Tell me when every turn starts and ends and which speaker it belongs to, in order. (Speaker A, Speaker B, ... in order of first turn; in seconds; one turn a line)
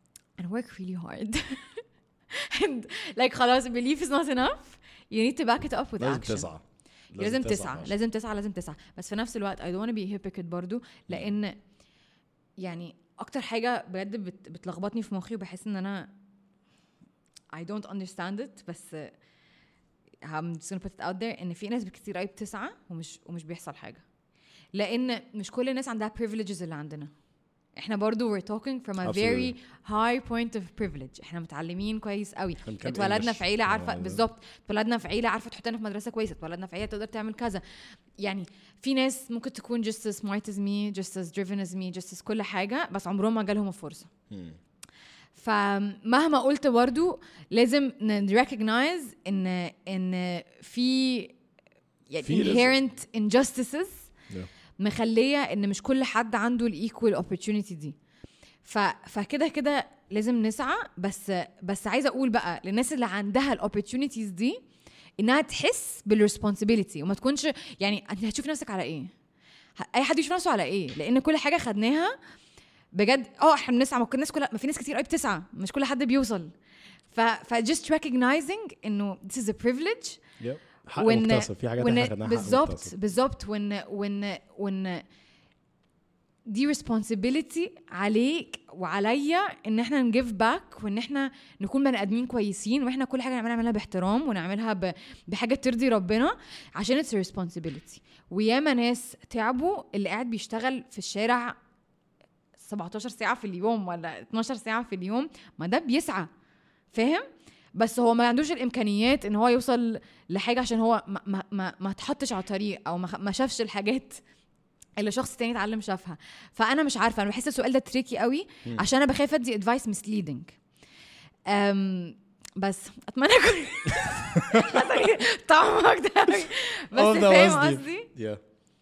Speaker A: 0.4-6.5
Speaker B: 6.0-8.0
Speaker A: 7.2-11.6
Speaker A: 12.6-16.1
Speaker A: 17.5-19.1
Speaker A: 20.2-24.0
Speaker A: 24.7-27.1
Speaker A: 27.8-37.6
Speaker B: 29.0-29.5
Speaker B: 32.6-34.2
Speaker A: 38.2-44.1
Speaker B: 44.3-44.6
Speaker A: 45.3-51.4
Speaker A: 52.1-54.1
Speaker B: 52.2-52.7
Speaker A: 54.8-58.0
Speaker A: 58.6-64.6
Speaker A: 65.2-69.1
Speaker A: 69.8-72.2
Speaker A: 72.9-76.5
Speaker A: 77.1-80.2
Speaker B: 80.4-82.9
Speaker A: 81.0-85.0
Speaker A: 86.5-101.5
Speaker A: 102.6-106.3
Speaker A: 106.9-114.2
Speaker A: 115.0-120.6
Speaker A: 121.5-128.1
Speaker B: 124.4-124.9
Speaker B: 126.9-128.4